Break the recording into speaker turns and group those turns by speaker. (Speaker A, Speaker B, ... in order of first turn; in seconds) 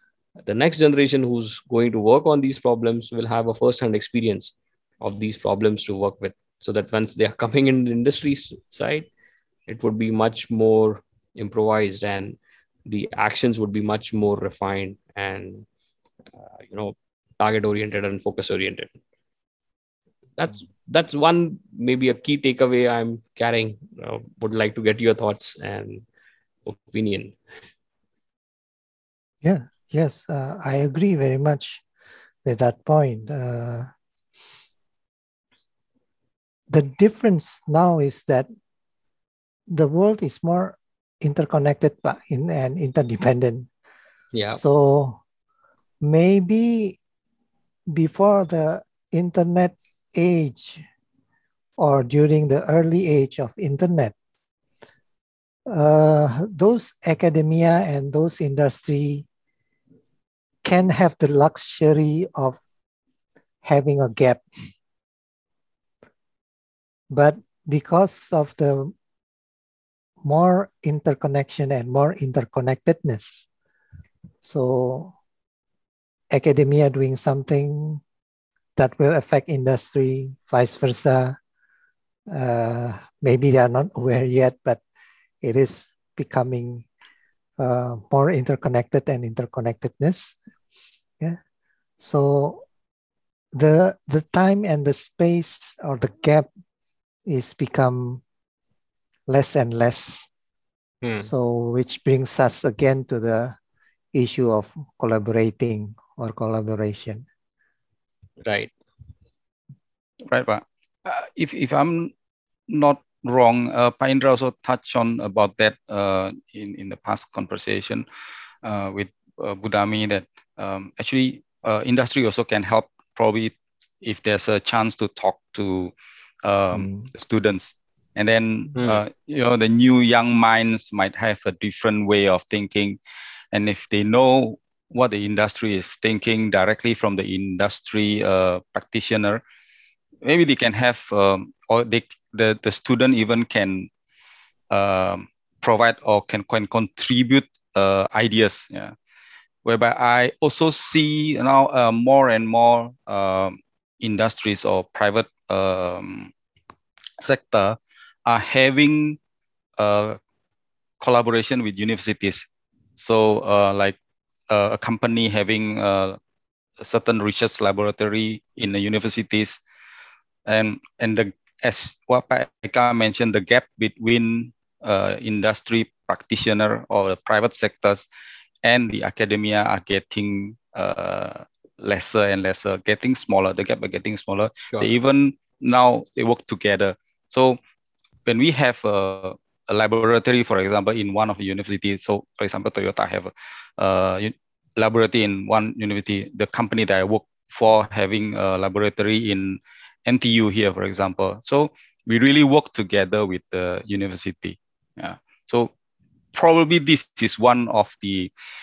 Speaker A: 0.5-9.1, 9.7-15.7, 16.4-18.9, 20.4-26.1, 26.7-27.4, 44.3-44.6, 101.0-101.3, 108.5-108.7, 128.8-129.0
Speaker B: 29.4-31.8, 32.5-33.9, 36.7-38.5, 39.7-43.7, 44.5-45.2, 46.0-47.0, 47.9-50.9, 51.8-54.1, 55.7-59.3, 60.6-62.6, 63.6-64.4, 67.1-68.9, 70.2-73.5, 74.4-75.1, 76.3-78.0, 78.8-81.4, 82.3-84.8, 85.4-86.8, 87.6-90.4, 92.0-92.6, 93.5-96.5, 97.3-98.2, 99.3-100.3, 101.2-103.6, 104.1-107.2, 126.8-127.1
Speaker C: 110.3-112.1, 112.7-118.0, 118.6-125.9, 126.4-133.0, 133.5-139.4, 140.2-143.9, 144.7-148.9, 149.7-156.3, 157.2-159.2, 159.8-160.2, 161.0-162.5, 163.0-164.0, 164.5-166.2, 166.8-169.6, 170.5-178.1, 178.6-187.6, 188.3-205.7, 206.3-208.3